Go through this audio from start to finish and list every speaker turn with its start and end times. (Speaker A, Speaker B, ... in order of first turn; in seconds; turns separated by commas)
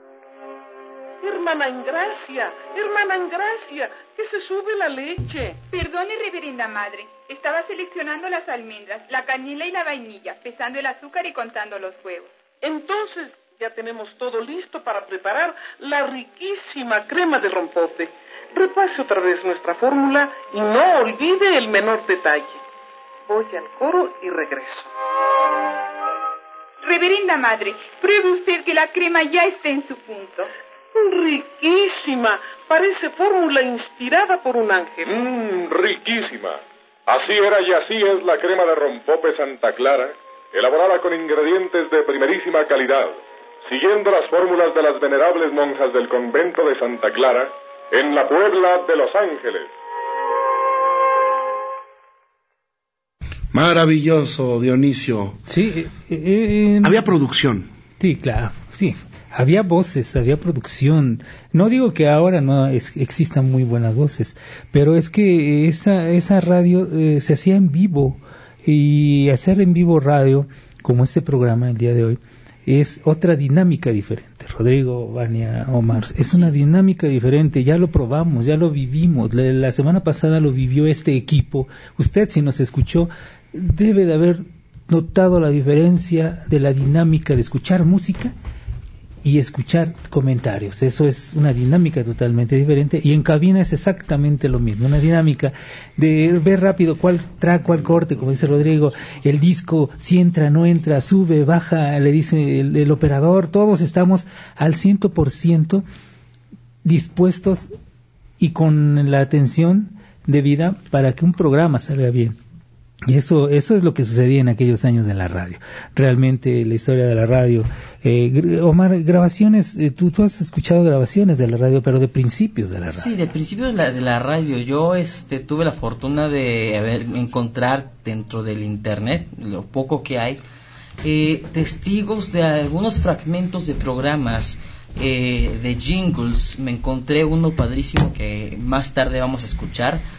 Speaker A: 1.2-5.6, Speaker B: 5.7-12.3, Speaker A: 12.6-22.6, Speaker A: 23.3-24.9, Speaker B: 26.8-30.5, Speaker A: 30.9-35.2, Speaker C: 35.1-49.7, Speaker D: 53.5-55.4, Speaker E: 55.5-57.0, Speaker D: 56.8-57.7, Speaker E: 58.0-88.3, Speaker F: 76.0-76.5, Speaker E: 89.2-105.8, Speaker D: 97.8-98.6, Speaker E: 106.8-107.7, Speaker E: 108.4-112.4, Speaker E: 113.1-123.1, Speaker F: 122.9-130.4, Speaker F: 131.0-140.0